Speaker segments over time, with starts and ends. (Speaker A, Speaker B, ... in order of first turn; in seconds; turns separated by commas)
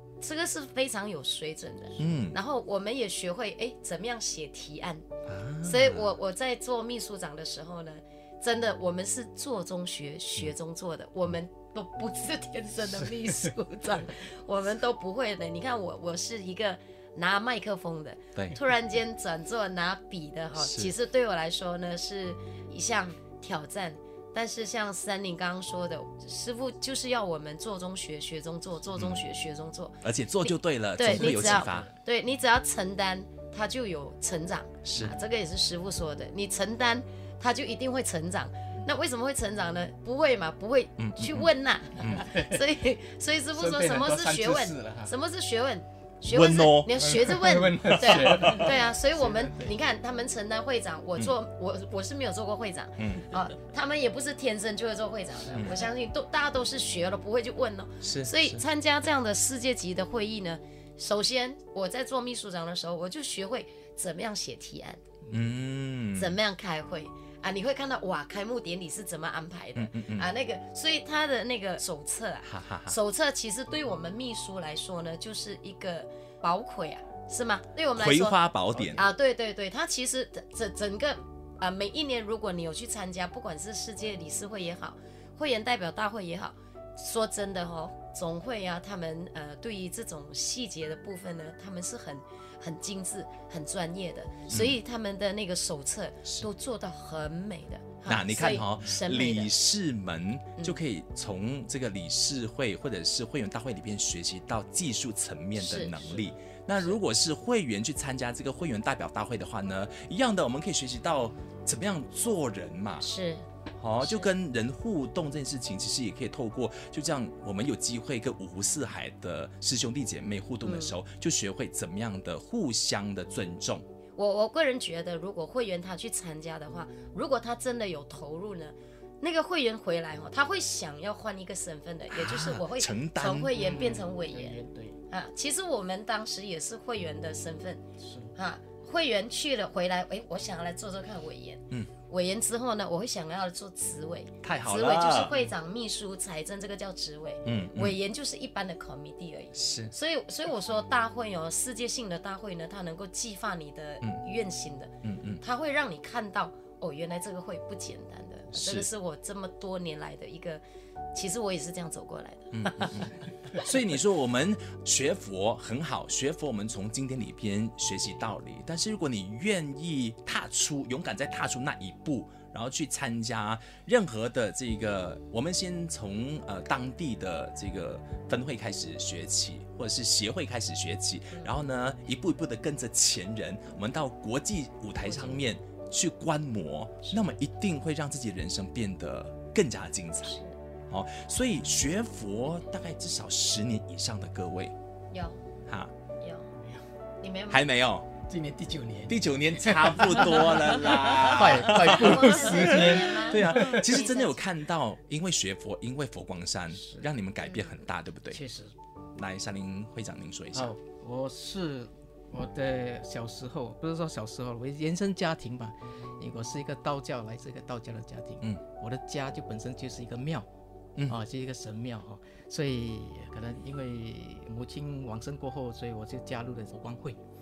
Speaker A: 0.2-5.0, Speaker B: 2.0-2.4, Speaker B: 5.3-6.1, Speaker A: 5.6-65.0, Speaker B: 20.6-20.9, Speaker B: 28.9-29.2, Speaker B: 30.0-31.9, Speaker C: 31.1-31.9, Speaker B: 34.8-35.1, Speaker B: 41.0-41.5, Speaker C: 42.0-42.6, Speaker C: 43.5-45.1, Speaker B: 46.3-47.3, Speaker C: 47.0-49.7, Speaker B: 47.9-48.7, Speaker B: 53.0-53.4, Speaker C: 55.5-55.7, Speaker B: 58.0-58.6, Speaker B: 65.3-66.3, Speaker A: 66.2-78.4, Speaker B: 69.8-70.3, Speaker B: 72.5-73.0, Speaker B: 78.0-79.0, Speaker C: 78.7-79.1, Speaker A: 78.9-99.5, Speaker B: 94.5-94.8, Speaker B: 98.1-113.1, Speaker A: 105.6-107.0, Speaker A: 113.0-113.5, Speaker B: 113.8-123.8, Speaker A: 114.0-114.3, Speaker A: 120.6-121.0, Speaker A: 124.2-137.8, Speaker B: 132.1-133.5, Speaker C: 133.5-135.0, Speaker C: 138.0-138.4, Speaker A: 138.3-160.6, Speaker B: 144.4-145.4, Speaker B: 147.4-148.0, Speaker B: 149.6-149.9, Speaker B: 155.0-155.4, Speaker B: 158.5-158.9, Speaker A: 161.1-163.7, Speaker B: 162.5-190.4, Speaker A: 185.0-185.4, Speaker A: 190.2-190.6, Speaker B: 190.9-194.7, Speaker A: 195.1-195.4, Speaker A: 196.2-196.5, Speaker A: 197.2-197.6, Speaker B: 197.5-198.1, Speaker C: 198.3-204.1, Speaker B: 199.1-208.4, Speaker A: 201.7-204.4, Speaker C: 206.8-207.1, Speaker A: 207.4-207.8, Speaker C: 208.3-208.7, Speaker B: 209.2-210.7, Speaker C: 210.5-220.5, Speaker C: 221.1-227.2